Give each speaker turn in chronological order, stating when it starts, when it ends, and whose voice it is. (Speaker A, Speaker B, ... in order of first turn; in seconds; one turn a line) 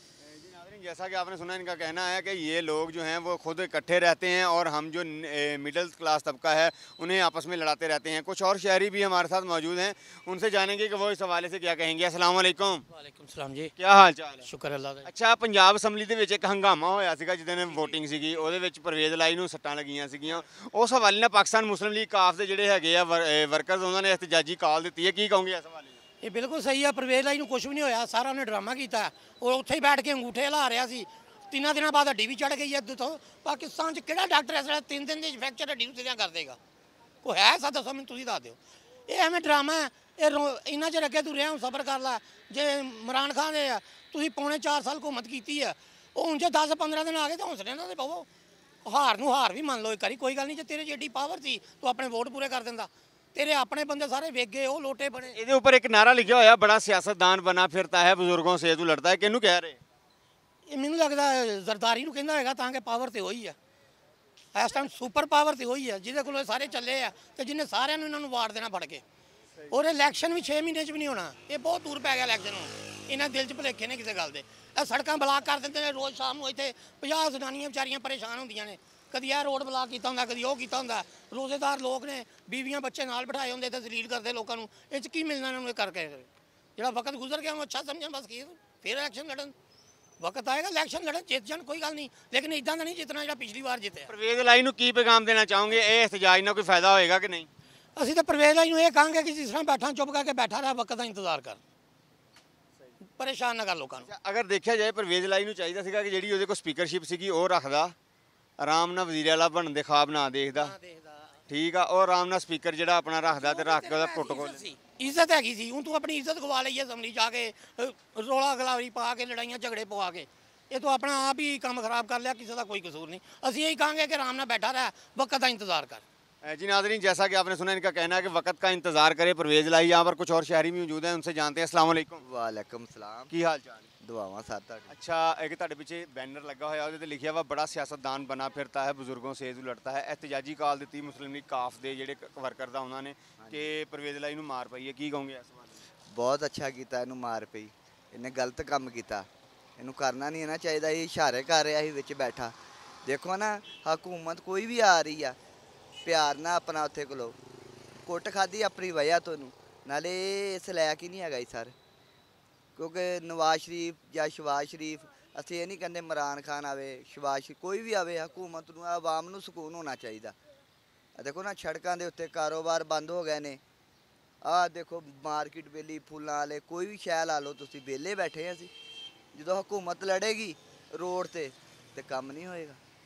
Speaker A: 0.2-12.9
Speaker B: 12.9-13.7
Speaker A: 13.8-14.5
Speaker B: 14.5-15.1
Speaker A: 15.1-26.0
Speaker B: 26.2-36.6
Speaker B: 37.2-48.3
Speaker B: 48.9-55.4
Speaker A: 55.3-59.8
Speaker B: 60.7-63.5
Speaker B: 64.5-69.0
Speaker B: 69.7-89.5
Speaker B: 90.2-94.1
Speaker A: 94.1-97.5
Speaker B: 98.0-101.6
Speaker B: 103.1-104.1
Speaker A: 104.0-107.9
Speaker A: 108.6-110.8
Speaker B: 110.5-111.3
Speaker A: 111.5-114.7
Speaker B: 113.3-126.0
Speaker A: 126.4-132.2
Speaker C: 132.2-133.3
Speaker A: 133.3-133.9
Speaker C: 134.0-134.9
Speaker A: 134.9-145.8
Speaker C: 143.4-143.7
Speaker C: 146.1-149.3
Speaker C: 149.8-155.4
Speaker C: 156.0-157.4
Speaker C: 158.0-161.7
Speaker C: 162.8-170.4
Speaker C: 171.2-173.6
Speaker C: 174.4-178.7
Speaker C: 179.3-182.8